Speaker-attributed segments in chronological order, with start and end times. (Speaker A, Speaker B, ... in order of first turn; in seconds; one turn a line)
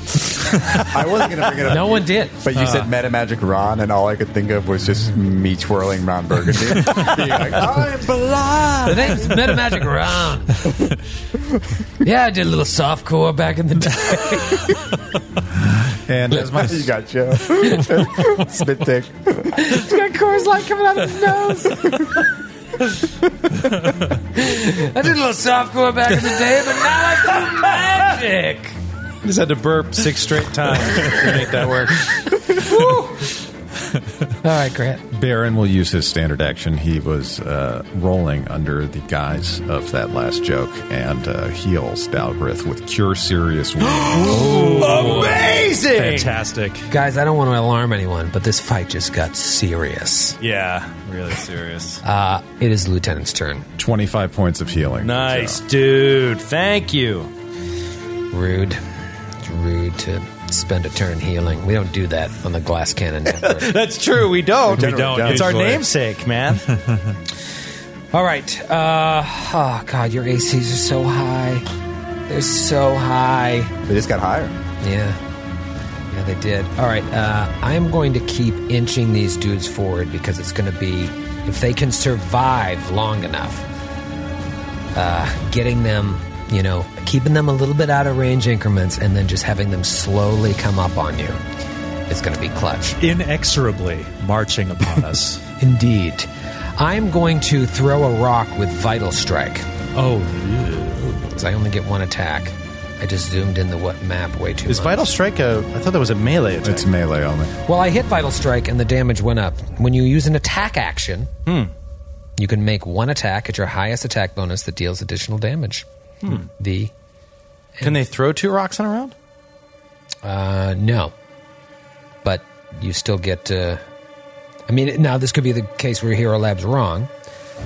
Speaker A: 0.9-8.9
Speaker B: 1.7-2.4
Speaker C: 2.5-2.9
Speaker D: 8.4-8.9
Speaker B: 8.9-10.7
Speaker B: 12.0-14.8
Speaker D: 16.1-16.9
Speaker A: 16.5-19.5
Speaker B: 19.6-22.1
Speaker C: 23.7-24.1
Speaker B: 24.3-28.8
Speaker E: 29.2-32.1
Speaker B: 32.5-33.4
Speaker B: 34.4-35.0
Speaker D: 35.1-44.8
Speaker E: 44.1-46.4
Speaker C: 44.2-46.9
Speaker B: 46.9-50.4
Speaker E: 50.4-52.0
Speaker B: 52.0-53.7
Speaker D: 53.8-55.6
Speaker E: 55.0-57.3
Speaker B: 58.3-58.8
Speaker B: 59.4-63.7
Speaker E: 63.3-66.6
Speaker C: 64.7-65.9
Speaker A: 64.7-65.6
Speaker C: 66.7-67.2
Speaker B: 68.1-71.7
Speaker B: 72.3-73.7
Speaker A: 73.9-74.5
Speaker B: 74.8-75.2
Speaker B: 76.1-83.7
Speaker B: 84.9-91.4
Speaker B: 92.1-93.0
Speaker C: 93.0-95.4
Speaker B: 95.6-99.7
Speaker C: 100.0-101.3
Speaker B: 101.3-105.1
Speaker E: 104.7-106.9
Speaker D: 106.6-107.5
Speaker B: 107.7-111.3
Speaker E: 111.5-111.7
Speaker B: 112.4-115.8
Speaker B: 116.4-116.9
Speaker E: 117.8-119.1
Speaker B: 120.2-121.1
Speaker B: 122.2-123.8
Speaker B: 124.7-127.1